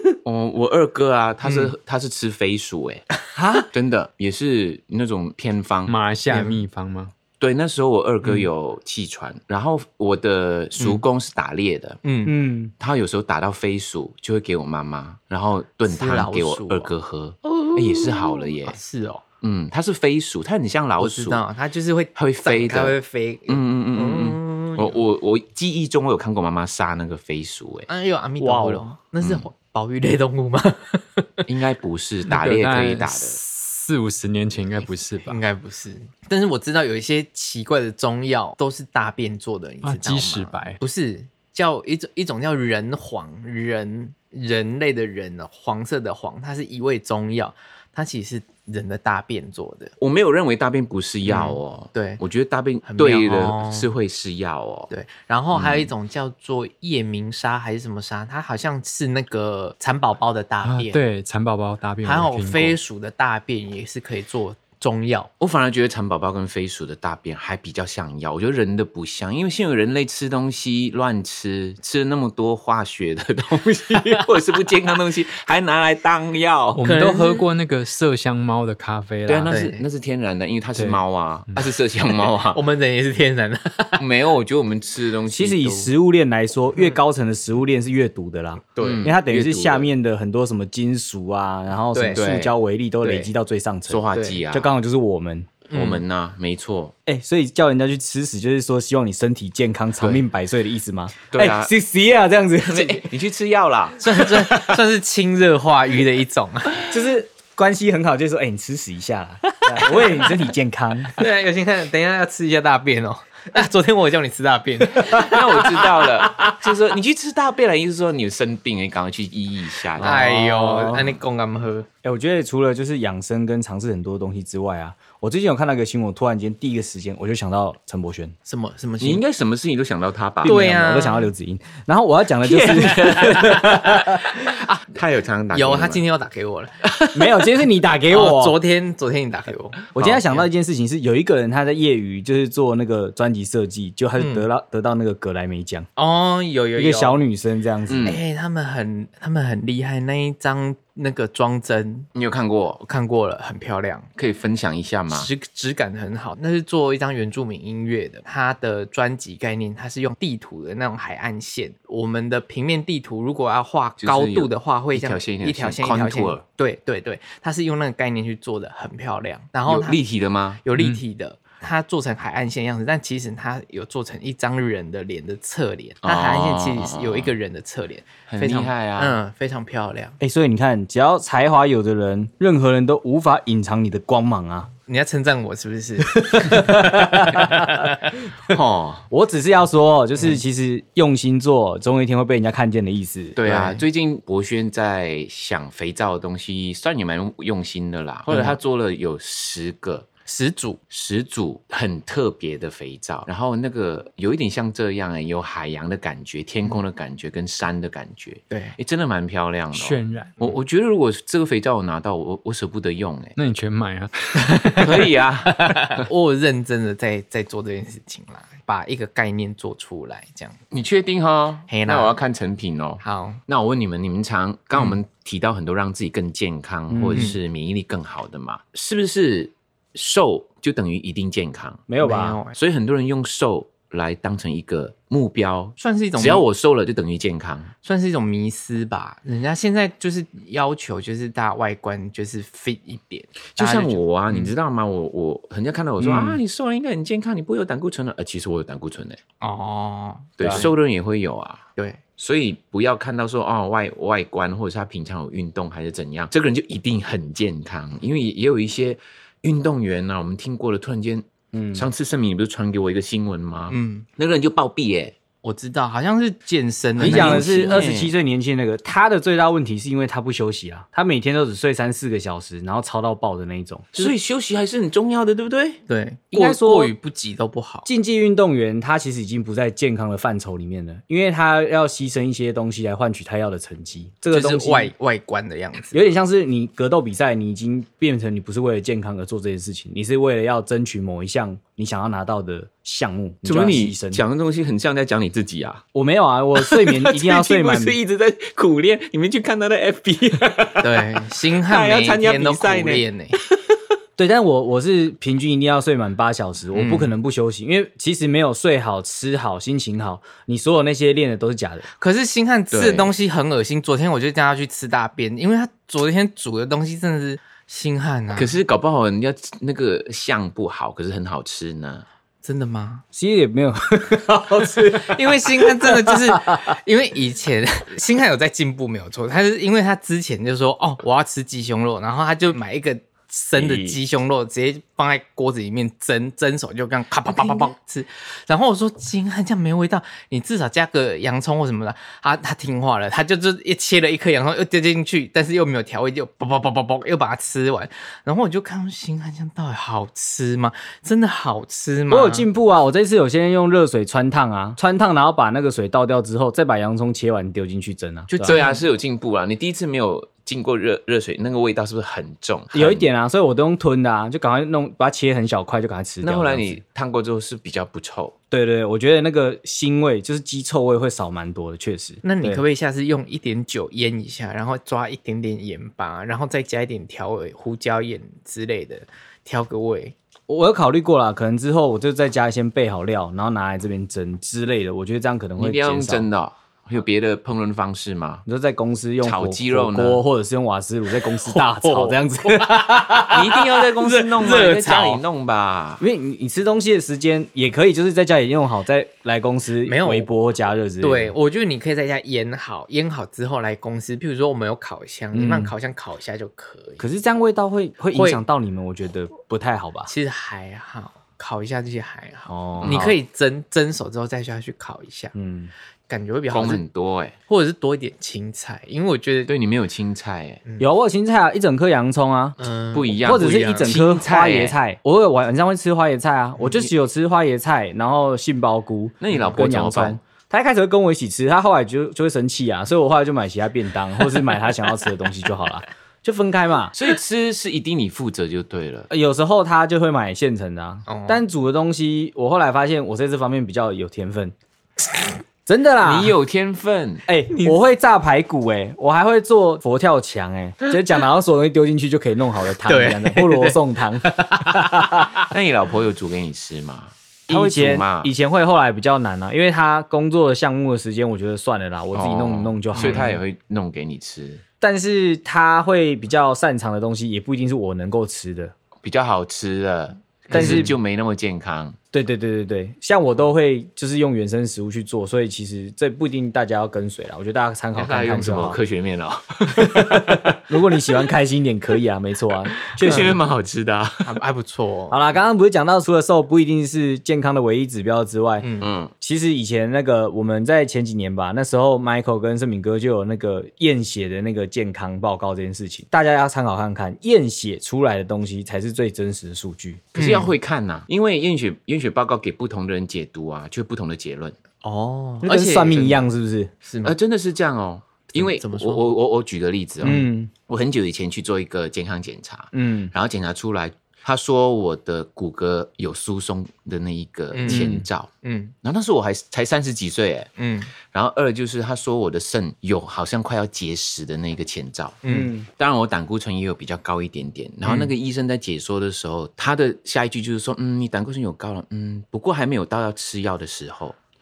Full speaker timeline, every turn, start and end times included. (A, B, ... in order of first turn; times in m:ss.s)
0:00.2-0:03.1 A
0:01.4-0:01.7 B
0:03.4-0:03.7 C
0:03.7-0:05.9 A
0:05.9-0:07.1 D
0:06.3-0:06.6 B
0:07.4-0:12.0 A
0:12.0-0:12.3 B
0:12.2-0:12.7 C
0:12.8-0:18.8 A
0:15.8-0:16.9 B
0:17.4-0:19.2 B
0:19.4-0:21.4 A
0:21.0-0:25.0 B
0:22.1-0:23.0 A
0:23.5-0:27.9 A
0:27.9-0:31.4 B
0:28.4-0:28.8 C
0:31.5-0:33.4 A
0:32.3-0:35.4 D
0:35.2-0:49.9 B
0:39.8-0:40.8 D
0:50.0-0:54.9 A
0:51.2-0:52.2 B
0:52.8-0:53.9 B
0:54.9-1:01.0 B
0:55.5-0:55.9 A
1:00.6-1:02.8 D
1:02.0-1:05.3 B
1:05.4-1:16.8 A
1:16.7-1:19.6 D
1:16.8-1:17.4 B
1:19.3-1:22.6 A
1:19.5-1:19.8 B
1:22.2-1:24.0 B
1:24.0-1:25.9 A
1:25.3-1:35.6 C
1:28.7-1:29.0 B
1:28.8-1:29.9 A
1:31.9-1:32.2 B
1:32.1-1:32.5 A
1:33.0-1:33.3 B
1:33.9-1:34.7 A
1:34.1-1:34.4 B
1:35.7-1:36.0 B
1:35.7-1:36.9 A
1:37.0-1:43.1 C
1:41.3-1:41.7 A
1:42.6-1:44.2 A
1:44.0-1:46.8 B
1:46.8-1:51.2 C
1:49.8-1:50.2 B
1:51.2-1:56.1 B
1:55.1-2:00.2 A
2:00.0-2:01.1 C
2:00.0-2:01.9 B
2:02.0-2:08.3 C
2:08.4-2:09.2 B
2:09.0-2:10.6 A
2:10.4-2:11.3 B
2:10.4-2:14.2 C
2:12.4-2:16.0 A
2:13.0-2:14.8 B
2:15.5-2:16.7 B
2:16.9-2:17.2 A
2:17.1-2:18.6 C
2:18.1-2:20.4 B
2:19.9-2:25.9 C
2:24.2-2:24.4 B
2:26.0-2:27.2 B
2:26.7-2:28.2 C
2:27.9-2:28.2 A
2:28.0-2:32.1 B
2:32.1-2:32.8 A
2:32.8-2:34.1 B
2:34.1-2:35.3 A
2:35.1-2:50.0 B
2:44.0-2:46.4 A
2:49.7-2:50.6 A
2:50.6-3:00.2 B
2:50.8-2:51.0 D
2:56.0-2:57.3 A
2:58.3-2:59.2 A
3:00.2-3:04.7 C
3:04.9-3:08.0 B
3:06.1-3:07.8 C
3:08.5-3:09.0 A
3:09.1-3:13.4 C
3:13.4-3:20.1 A
3:13.4-3:13.8 B
3:18.3-3:18.6 B
3:20.2-3:20.8 B
3:20.9-3:33.3 A
3:28.5-3:28.8 B
3:29.7-3:30.3 D
3:33.4-3:35.1 D
3:34.8-3:36.0 A
3:35.5-3:40.6 B
3:40.7-3:51.8 A
3:41.7-3:42.2 B
3:43.0-3:43.4 B
3:46.9-3:47.3 C
3:47.1-3:47.4 B
3:51.9-3:52.4 C
3:52.0-3:52.5 B
3:52.5-3:57.7 A
3:55.8-3:56.4 B
3:57.8-4:04.5 B
4:03.6-4:09.2 A
4:06.0-4:06.4 B
4:09.4-4:10.7 B
4:10.4-4:11.6 A
4:10.4-4:10.7 C
4:12.2-4:25.1 A
4:21.5-4:21.9 C
4:23.7-4:24.0 B
4:25.4-4:27.9 B
4:27.0-4:28.1 A
4:27.0-4:34.1 C
4:33.9-4:35.8 A
4:35.9-4:37.9 B
4:36.3-4:36.9 C
4:37.8-4:44.9 C
4:44.3-4:46.0 B
4:45.9-4:54.2 C
4:53.4-4:55.8 A
4:55.9-4:58.0 C
4:56.6-5:03.8 A
5:00.8-5:03.4 B
5:04.2-5:11.9 C
5:06.7-5:07.1 B
5:12.0-5:18.6 B
5:12.7-5:13.1 A
5:18.3-5:22.0 A
5:22.4-5:23.0 B
5:23.1-5:26.6 C
5:24.8-5:52.5 B
5:33.6-5:34.0 A
5:52.1-5:58.6 C
5:58.3-6:03.1 A
5:58.4-5:58.8 B
6:02.7-6:06.8 C
6:06.2-6:08.3 A
6:08.5-6:12.6 C
6:12.2-6:20.1 B
6:20.5-6:26.3 C
6:25.6-6:28.4 A
6:28.4-6:33.5 C
6:29.2-6:30.2 A
6:31.4-6:35.2 B
6:33.2-6:36.0 A
6:36.0-6:41.3 C
6:39.8-6:40.3 B
6:41.0-6:47.0 B
6:45.3-6:45.7 C
6:47.0-6:50.1 C
6:48.1-6:48.4 B
6:50.0-6:55.3 B
6:52.5-6:53.2 C
6:52.8-6:53.1 A
6:55.3-6:55.7 C
6:56.1-6:56.8 B
6:56.5-6:57.3 A
6:57.5-6:59.5 B
6:59.5-7:00.6 A
7:00.8-7:02.6 C
7:02.6-7:03.6 B
7:02.9-7:04.8 A
7:03.2-7:16.9 C
7:09.2-7:10.2 A
7:16.9-7:19.1 A
7:19.1-7:24.5 C
7:21.1-7:21.4 B
7:25.6-7:26.4 C
7:26.0-7:27.2 A
7:27.3-7:35.3 C
7:27.5-7:27.8 B
7:32.8-7:35.2 B
7:35.4-7:38.3 A
7:37.5-7:43.4 C
7:42.1-7:44.6 A
7:42.9-7:43.3 B
7:44.8-7:48.7 C
7:49.0-7:52.0 A
7:50.5-7:50.9 B
7:50.5-7:50.9 C
7:52.1-7:58.8 C
7:57.9-8:01.2 A
7:59.7-8:03.4 C
8:02.8-8:04.4 A
8:03.0-8:03.3 B
8:04.2-8:05.2 B
8:05.1-8:08.7 C
8:08.6-8:08.9 B
8:08.8-8:09.1 A
8:09.2-8:20.1 C
8:20.1-8:20.5 B
8:20.1-8:24.6 A
8:24.8-8:26.3 B
8:25.4-8:26.7 C
8:26.8-8:27.1 B
8:27.0-8:38.3 A
8:28.3-8:29.1 B
8:30.0-8:30.5 C
8:32.7-8:33.1 C
8:37.5-8:38.7 B
8:37.6-8:38.1 C
8:38.8-8:40.5 A
8:40.6-8:40.9 B
8:41.1-8:54.2 A
8:45.2-8:45.5 B
8:45.3-8:45.7 C
8:47.8-8:48.1 B